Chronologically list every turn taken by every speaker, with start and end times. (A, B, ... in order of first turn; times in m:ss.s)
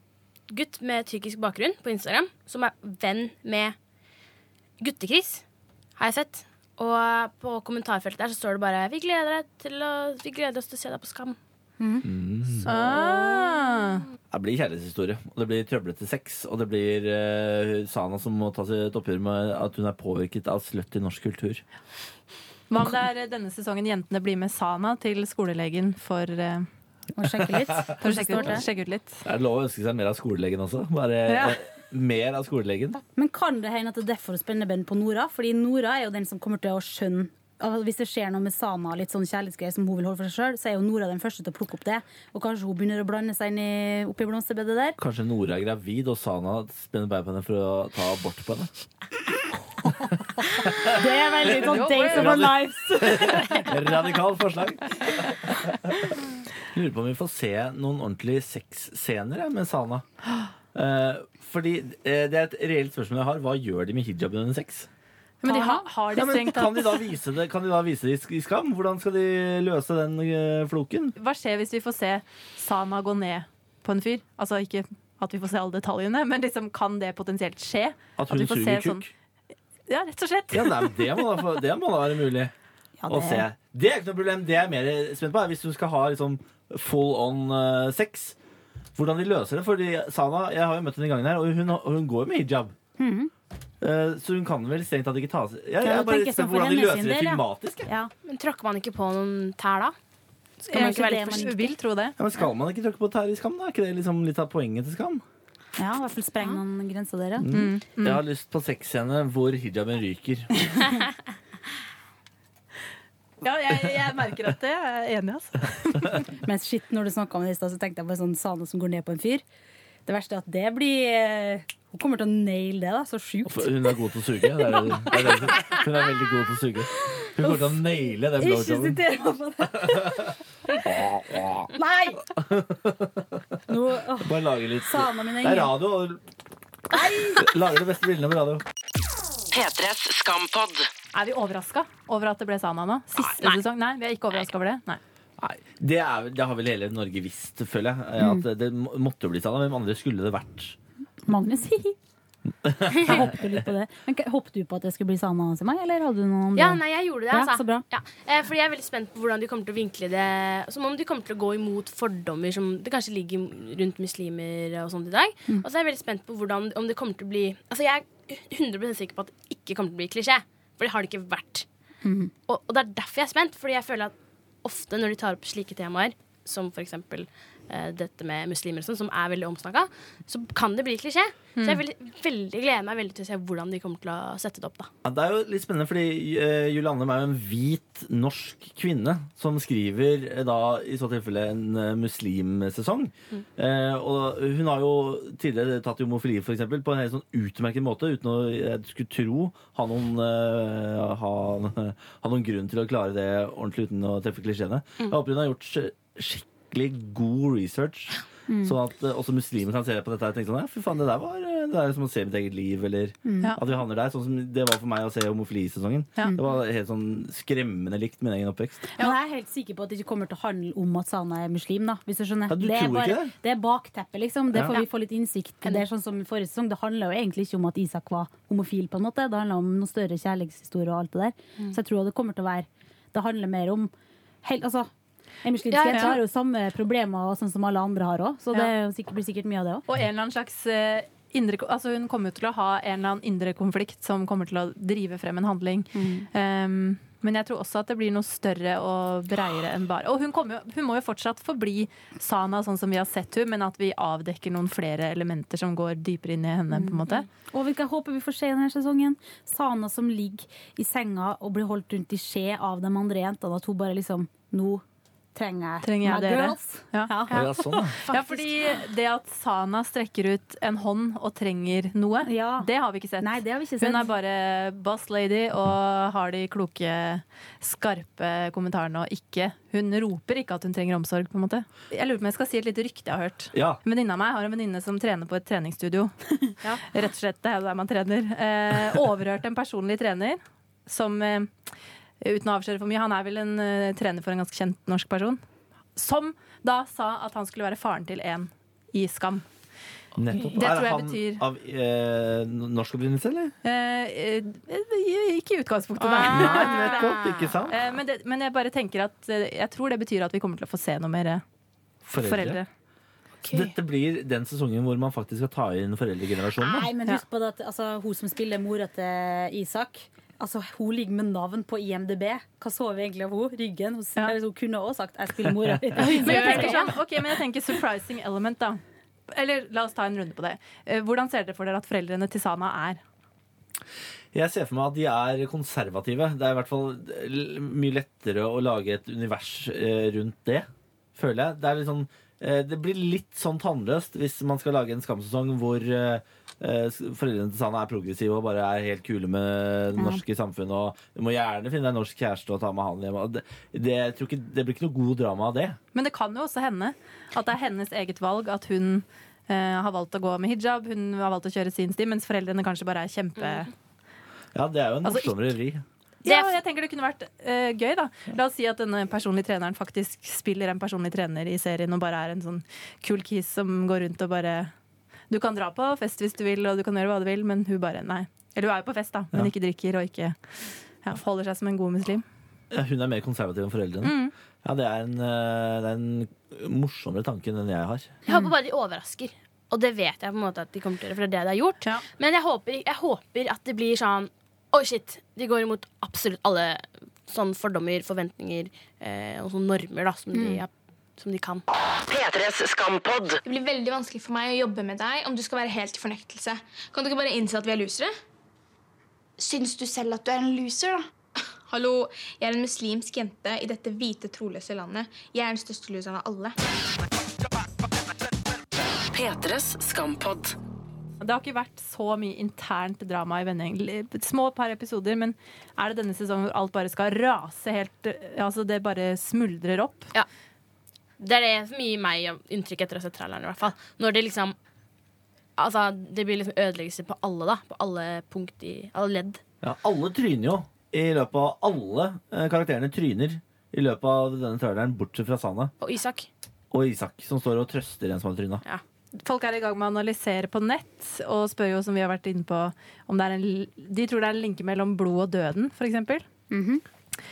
0:00.5-0:03.8 A
0:04.8-0:05.4 A
0:06.0-0:11.4 A
0:11.8-0:12.1 B
0:12.0-0:12.6 C
0:12.6-0:14.0 D
0:14.3-0:21.6 C
0:22.7-0:26.7 D
0:27.2-0:28.6 B
0:28.0-0:29.2 D
0:29.2-0:33.0 C
0:31.3-0:31.6 D
0:32.9-0:45.0 B
0:45.0-0:48.7 C
0:50.5-0:54.0 B
0:51.4-0:56.1 C
0:51.5-0:52.5 D
0:56.7-1:00.0 C
1:00.7-1:04.9 C
1:05.4-1:07.0 D
1:05.4-1:05.9 B
1:06.1-1:11.1 C
1:11.2-1:19.0 D
1:18.2-1:19.1 C
1:19.9-1:21.2 D
1:20.5-1:22.5 C
1:23.0-1:23.4 B
1:23.1-1:28.4 C
1:29.0-1:32.7 C
1:33.0-1:33.3 B
1:33.8-1:37.9 C
1:35.8-1:38.1 B
1:38.2-1:39.9 A
1:40.6-1:41.5 A
1:40.7-1:41.7 B
1:40.7-1:42.2 D
1:42.2-1:45.2 C
1:45.8-1:47.5 B
1:47.4-1:50.6 C
1:47.5-1:48.2 D
1:53.4-1:56.2 D
1:56.3-1:59.4 B
2:00.0-2:04.0 B
2:03.4-2:09.0 C
2:04.6-2:05.7 B
2:07.0-2:12.3 B
2:12.5-2:13.2 C
2:13.7-2:15.8 B
2:14.2-2:16.2 C
2:16.9-2:17.5 B
2:17.4-2:18.6 C
2:19.5-2:20.9 E
2:21.1-2:25.0 D
2:23.1-2:23.6 A
2:25.4-2:30.8 C
2:28.2-2:28.4 B
2:31.3-2:32.0 B
2:32.6-2:33.4 C
2:33.0-2:37.8 B
2:36.6-2:51.6 A
2:52.0-2:52.3 B
2:52.5-2:54.1 A
2:54.6-3:04.9 A
3:01.6-3:01.8 D
3:05.0-3:38.9 C
3:28.5-3:28.8 B
3:33.2-3:33.6 B
3:38.9-3:53.9 B
3:42.5-3:43.3 C
3:44.5-3:44.8 C
3:54.4-3:54.9 B
3:55.4-3:59.8 B
3:55.7-3:56.2 A
3:55.9-3:56.2 D
3:59.9-4:17.3 D
4:05.9-4:06.3 B
4:16.7-4:24.8 B
4:25.3-4:28.7 B
4:25.8-4:51.5 D
4:27.3-4:28.0 C
4:32.2-4:34.1 B
4:43.5-4:43.8 C
4:52.2-4:55.4 D
4:56.0-4:59.5 D
5:00.2-5:03.5 C
5:00.3-5:01.4 D
5:03.6-5:07.1 D
5:06.0-5:07.6 A
5:06.3-5:07.8 C
5:07.7-5:11.4 D
5:12.1-5:12.6 C
5:12.2-5:12.7 D
5:13.5-5:16.9 C
5:16.6-5:27.0 B
5:26.0-5:26.9 A
5:26.0-5:33.0 D
5:34.3-5:55.8 C
5:50.0-5:50.2 B
5:55.9-6:03.7 D
6:04.5-6:05.8 C
6:05.0-6:05.4 D
6:06.2-6:14.7 D
6:06.2-6:06.6 A
6:15.3-6:20.4 D
6:21.0-6:22.2 D
6:22.7-6:28.1 C
6:24.0-6:24.3 D
6:28.2-6:41.6 A
6:40.3-6:40.6 B
6:42.1-6:43.4 E
6:43.4-6:48.1 F
6:49.8-6:50.3 F
6:51.7-6:56.5 F
6:59.1-7:00.5 E
7:01.2-7:10.1 D
7:11.2-7:14.6 A
7:15.6-7:19.4 A
7:19.6-7:25.7 C
7:25.8-7:26.3 A
7:26.7-7:28.6 C
7:29.2-7:36.2 D
7:36.5-7:36.8 B